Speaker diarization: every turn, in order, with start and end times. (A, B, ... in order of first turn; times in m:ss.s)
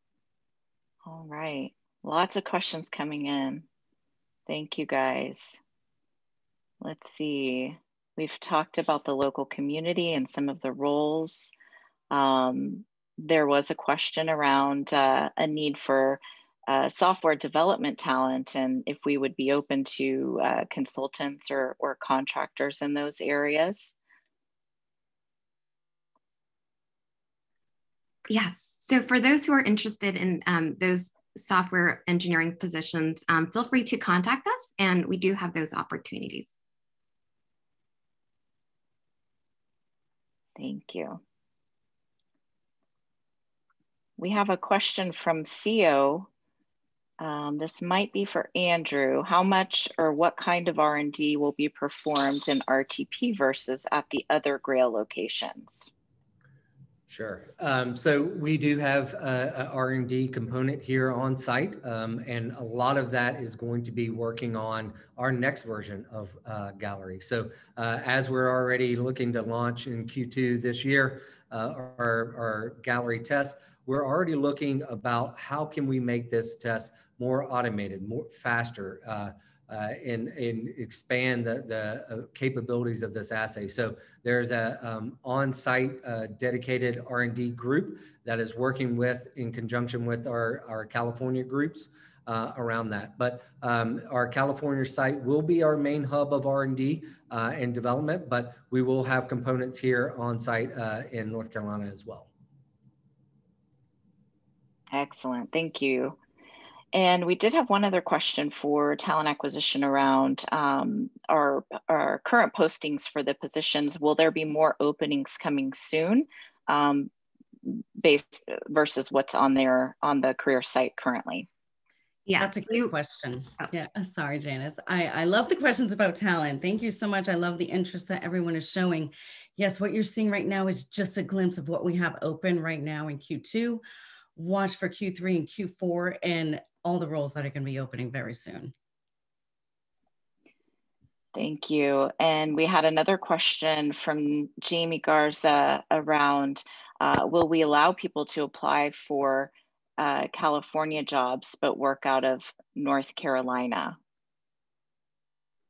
0:01.0-0:03.6 A
0:04.5-0:05.6 A
0:06.8-0:11.5 A
0:12.1-0:23.9 A
0:28.3-0:36.5 B
0:40.6-0:41.2 A
0:44.2-0:46.3 A
0:47.2-0:55.9 A
0:57.1-1:42.3 C
1:44.9-1:46.2 A
1:46.9-1:57.1 A
1:57.6-2:01.5 A
2:02.2-2:02.9 B
2:02.4-2:13.8 D
2:14.4-2:18.7 D
2:21.3-2:34.0 A